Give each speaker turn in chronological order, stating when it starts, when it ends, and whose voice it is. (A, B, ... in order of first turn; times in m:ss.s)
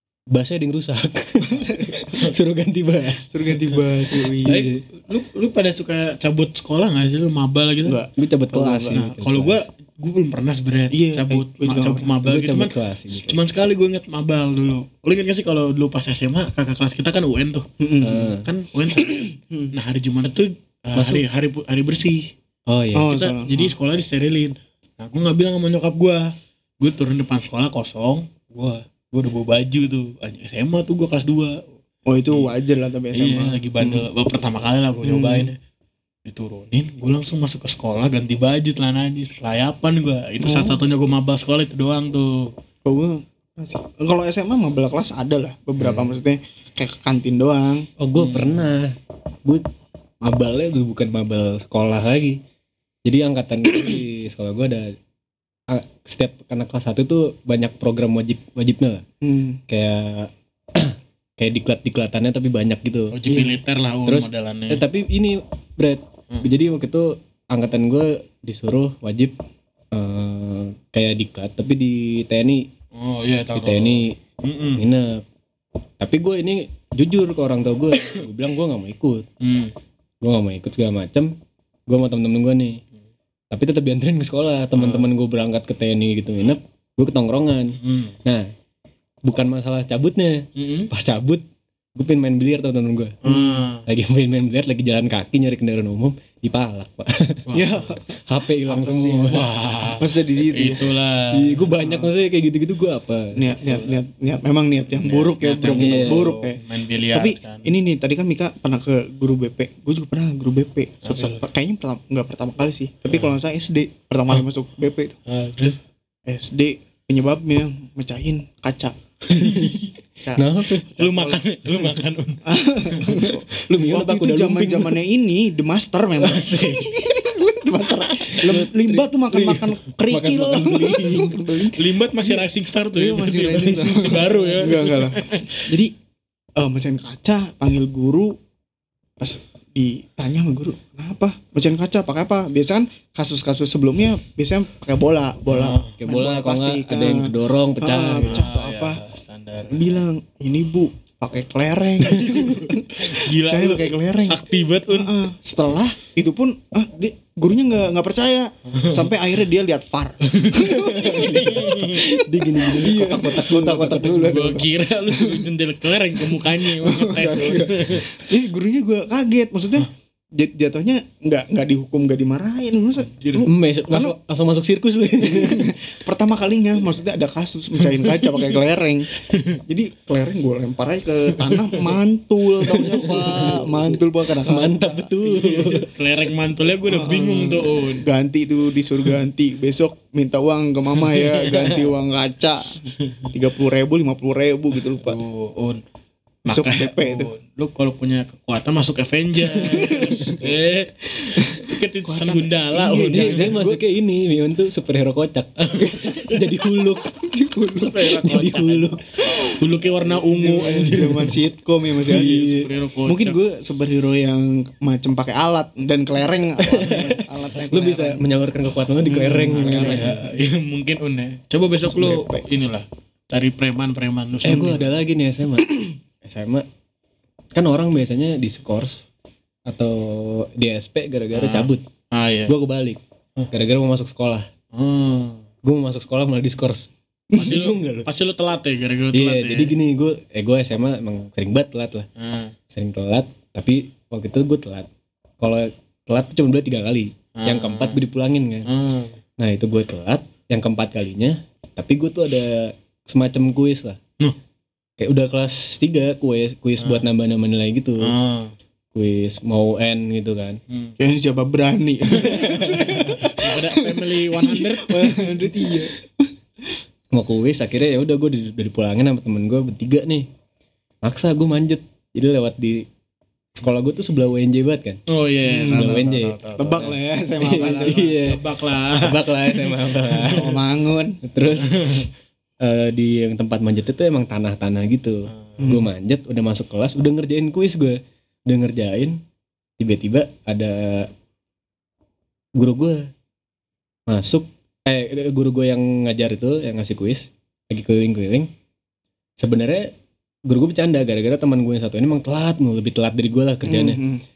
0:00.3-0:03.6 A
0:01.4-0:02.3 B
0:03.3-0:04.7 B
0:04.3-0:04.8 A
0:04.5-0:08.0 C
0:07.8-0:09.0 B
0:08.2-0:09.6 A
0:08.9-0:17.7 C
0:10.9-0:12.1 B
0:12.2-0:13.4 A
0:17.8-0:18.4 B
0:18.0-0:18.4 A
0:18.4-0:22.3 C
0:19.0-0:19.7 B
0:21.0-0:21.2 A
0:22.7-0:23.1 A
0:22.9-0:23.7 B
0:23.1-0:31.6 C
0:32.0-0:34.1 B
0:33.1-0:35.6 C
0:35.0-0:35.5 B
0:36.2-0:42.5 C
0:40.4-0:40.8 B
0:42.8-0:47.9 B
0:48.0-0:49.6 A
0:48.2-0:48.7 C
0:50.2-0:52.4 A
0:53.0-0:54.9 A
0:55.7-0:59.0 A
0:59.2-0:59.6 B
0:59.7-1:03.2 A
1:03.1-1:04.8 C
1:03.3-1:03.6 B
1:04.0-1:09.3 A
1:09.9-1:12.7 A
1:12.9-1:14.8 C
1:13.5-1:14.2 A
1:14.8-1:15.2 A
1:16.0-1:19.2 A
1:19.4-1:19.7 C
1:20.2-1:21.3 A
1:21.9-1:22.8 A
1:23.5-1:28.5 A
1:24.8-1:25.1 C
1:27.8-1:28.1 C
1:29.2-1:31.4 A
1:30.6-1:30.9 C
1:32.0-1:33.2 A
1:33.2-1:33.8 C
1:33.2-1:33.6 B
1:33.8-1:37.5 A
1:37.5-1:38.0 C
1:37.5-1:38.0 B
1:38.3-1:39.4 A
1:38.6-1:39.4 B
1:39.2-1:42.1 C
1:39.9-1:40.8 B
1:41.3-1:43.6 A
1:43.3-1:46.6 B
1:45.0-1:47.7 C
1:45.7-1:46.3 A
1:47.1-1:55.1 B
1:51.0-1:51.4 C
1:55.3-1:55.8 C
1:56.2-1:59.7 B
1:59.3-1:59.8 A
1:59.4-1:59.9 C
2:00.2-2:01.4 B
2:00.4-2:00.9 A
2:01.0-2:03.2 C
2:02.4-2:15.9 B
2:03.1-2:05.0 A
2:06.2-2:07.2 A
2:08.2-2:11.4 A
2:11.7-2:15.6 C
2:16.6-2:18.3 B
2:19.2-2:29.0 B
2:25.5-2:26.0 C
2:26.0-2:28.4 A
2:28.1-2:29.9 C
2:29.6-2:42.0 B
2:32.0-2:35.2 C
2:38.7-2:39.1 C
2:40.2-2:42.0 C
2:40.6-2:44.4 A
2:42.6-2:45.5 B
2:44.1-2:48.2 C
2:46.1-2:54.2 B
2:53.0-2:53.5 C
2:53.4-2:55.7 A
2:55.2-2:59.1 B
2:57.9-2:58.4 C
2:59.3-2:59.6 C
2:59.6-3:05.1 B
3:01.3-3:01.9 C
3:02.6-3:03.0 C
3:03.0-3:03.9 A
3:04.4-3:05.9 A
3:05.2-3:08.0 C
3:06.9-3:15.2 B
3:11.0-3:11.8 C
3:13.0-3:13.3 C
3:14.8-3:15.8 C
3:16.4-3:23.5 C
3:16.5-3:17.3 B
3:19.5-3:20.6 B
3:21.2-3:23.8 B
3:22.8-3:27.1 A
3:25.6-3:26.4 C
3:27.0-3:28.2 B
3:27.8-3:31.4 C
3:28.0-3:29.0 A
3:30.0-3:32.4 B
3:32.0-3:33.4 C
3:32.1-3:32.7 A
3:33.0-3:38.3 B
3:36.6-3:40.3 A
3:39.0-3:40.2 B
3:39.5-3:44.9 C
3:41.9-3:42.4 B
3:44.4-3:46.6 A
3:44.5-3:44.8 B
3:47.5-3:49.0 A
3:49.7-3:51.8 A
3:51.3-3:52.5 C
3:52.5-3:53.0 A
3:53.5-3:54.5 A
3:54.7-3:55.4 C
3:55.6-3:58.1 A
3:57.4-3:59.7 C
3:59.1-4:02.1 A
4:02.2-4:02.5 C
4:02.7-4:04.9 A
4:05.4-4:08.7 A
4:07.4-4:08.0 C
4:08.6-4:09.2 C
4:09.4-4:14.0 A
4:15.0-4:18.1 A
4:16.8-4:17.1 C
4:18.0-4:18.5 C
4:18.9-4:20.6 A
4:20.7-4:21.0 C
4:21.0-4:26.0 B
4:22.1-4:25.4 C
4:22.2-4:22.9 A
4:27.1-4:30.3 A
4:31.0-4:32.9 A
4:33.6-4:35.0 A
4:35.1-4:40.6 C
4:35.4-4:35.9 B
4:35.6-4:36.4 A
4:36.6-4:38.1 B
4:37.4-4:38.4 A
4:39.0-4:40.6 A
4:40.3-4:41.2 B
4:41.2-4:42.0 A
4:41.6-4:42.1 C
4:42.6-4:49.2 A
4:45.6-4:45.9 B
4:49.8-4:51.1 A
4:52.6-4:53.1 A
4:54.1-4:58.5 A
4:59.4-4:59.9 A
5:00.5-5:04.0 A
5:03.6-5:04.2 B